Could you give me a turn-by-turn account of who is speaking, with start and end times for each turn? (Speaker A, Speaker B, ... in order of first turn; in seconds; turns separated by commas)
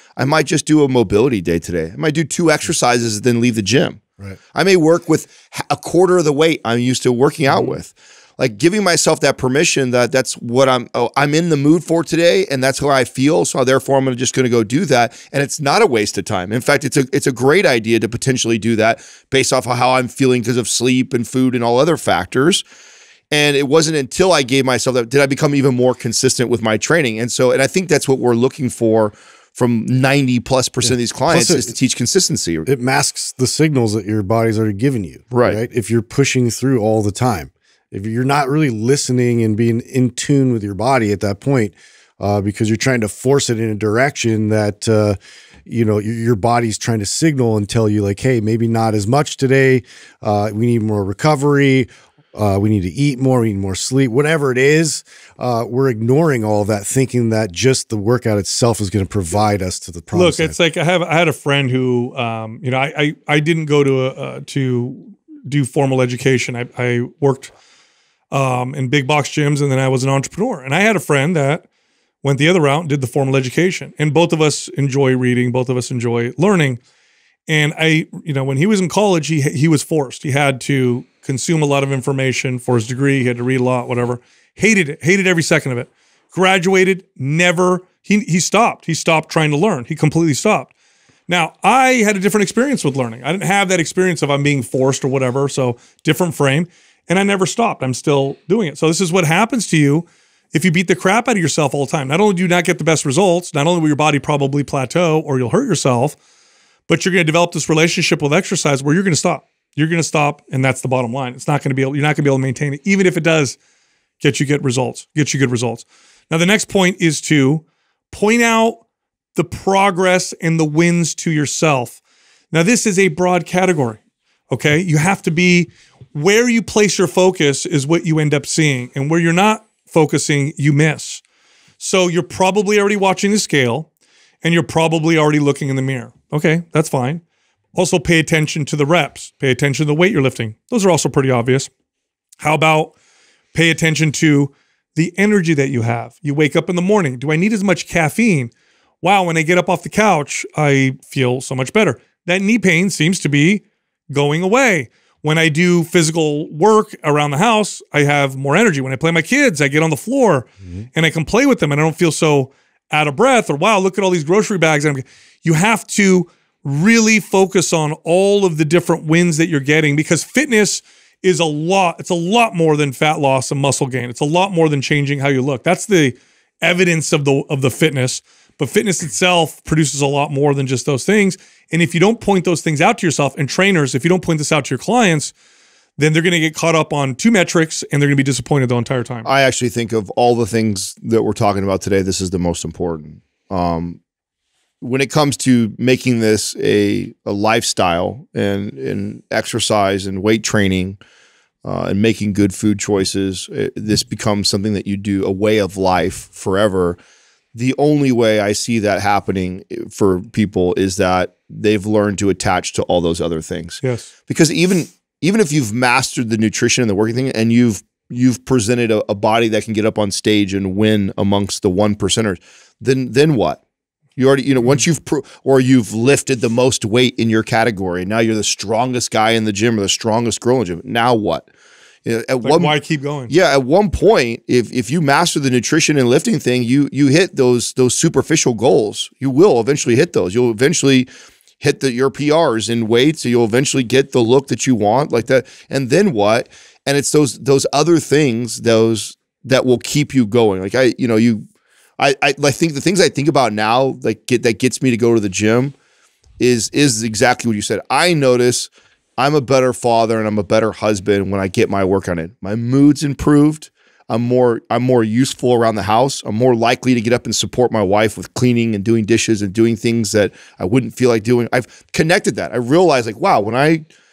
Speaker A: 0.2-4.0, Speaker A: 4.5-22.6, Speaker B: 7.5-7.8, Speaker A: 23.3-32.7, Speaker B: 30.8-31.7, Speaker B: 32.6-60.5, Speaker A: 35.3-35.6, Speaker C: 60.1-67.5, Speaker C: 68.3-71.6, Speaker C: 72.2-76.8, Speaker C: 77.5-90.7, Speaker C: 91.3-106.2, Speaker C: 106.9-113.6, Speaker C: 114.2-118.8, Speaker C: 119.3-122.0, Speaker C: 122.5-131.2, Speaker C: 131.8-133.9, Speaker C: 134.4-137.2, Speaker C: 137.7-141.7, Speaker C: 142.4-142.9, Speaker C: 143.5-185.3, Speaker C: 186.0-189.3, Speaker A: 189.2-194.0, Speaker A: 194.8-201.0, Speaker A: 201.6-207.0, Speaker A: 207.5-223.6, Speaker C: 213.8-214.1, Speaker A: 224.2-231.5, Speaker A: 232.0-232.7, Speaker C: 232.4-233.3, Speaker A: 233.3-241.1, Speaker A: 241.6-251.4, Speaker A: 252.0-255.7, Speaker A: 256.4-273.9